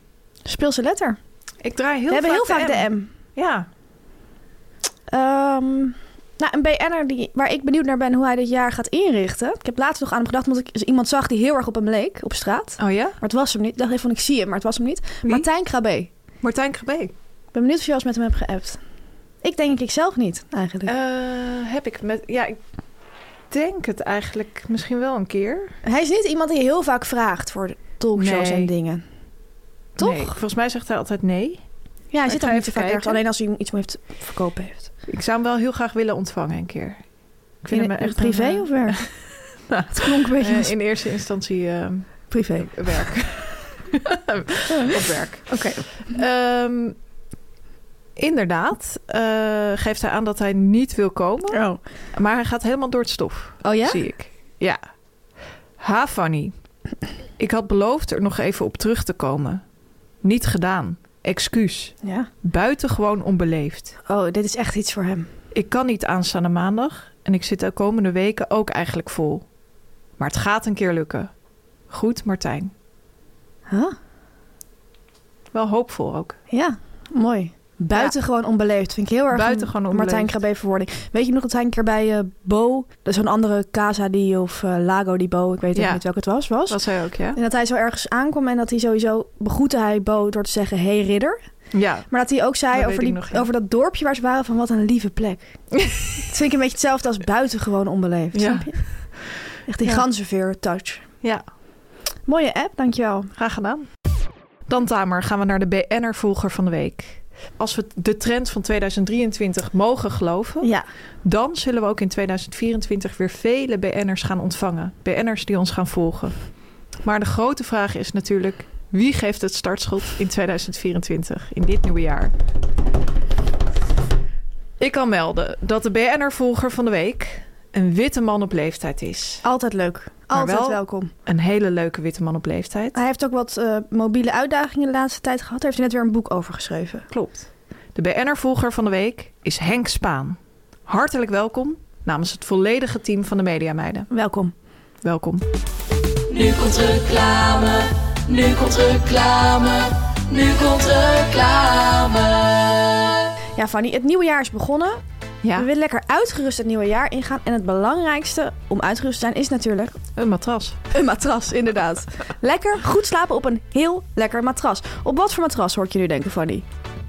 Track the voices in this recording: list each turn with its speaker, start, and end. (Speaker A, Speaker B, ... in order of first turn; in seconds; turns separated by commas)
Speaker A: 0.5-1.2, Speaker B: 1.6-3.7, Speaker A: 2.1-3.1, Speaker A: 5.1-16.1, Speaker B: 12.8-13.2, Speaker B: 16.4-17.1, Speaker A: 17.5-18.8, Speaker A: 19.4-20.9, Speaker B: 20.9-22.6, Speaker B: 23.5-25.8, Speaker A: 25.8-29.0, Speaker B: 28.2-28.7, Speaker A: 30.0-30.3, Speaker B: 30.0-31.6, Speaker A: 32.1-34.9, Speaker B: 32.3-33.2, Speaker B: 35.1-37.0, Speaker B: 37.6-39.1, Speaker A: 37.7-39.0, Speaker B: 39.7-46.9, Speaker A: 39.9-40.7, Speaker A: 42.3-42.7, Speaker A: 45.5-46.2, Speaker B: 48.2-51.6, Speaker A: 51.5-51.8, Speaker B: 52.1-54.8, Speaker A: 53.6-54.0, Speaker B: 55.8-56.5, Speaker B: 57.4-59.6, Speaker B: 60.2-63.9, Speaker A: 62.0-62.3, Speaker A: 64.0-65.3, Speaker B: 65.5-69.4, Speaker B: 70.2-71.3, Speaker B: 71.9-72.7, Speaker A: 73.7-73.9, Speaker B: 75.5-76.4, Speaker A: 76.5-86.8, Speaker B: 79.3-80.3, Speaker B: 85.7-86.0, Speaker B: 86.7-87.4, Speaker A: 87.3-91.4, Speaker B: 91.7-92.1, Speaker A: 92.1-98.8, Speaker B: 92.7-93.5, Speaker B: 98.3-99.2, Speaker A: 99.7-101.0, Speaker A: 102.3-103.3, Speaker B: 103.4-103.8, Speaker B: 104.7-110.7, Speaker B: 111.2-116.3, Speaker B: 117.0-122.3, Speaker B: 124.8-129.4, Speaker A: 129.4-131.1, Speaker B: 130.3-133.0, Speaker A: 132.9-137.1, Speaker B: 137.1-144.1, Speaker A: 144.1-144.5, Speaker B: 145.0-145.4, Speaker C: 146.3-153.2, Speaker A: 153.6-155.0, Speaker A: 155.5-160.0, Speaker B: 160.2-160.8, Speaker A: 160.9-166.6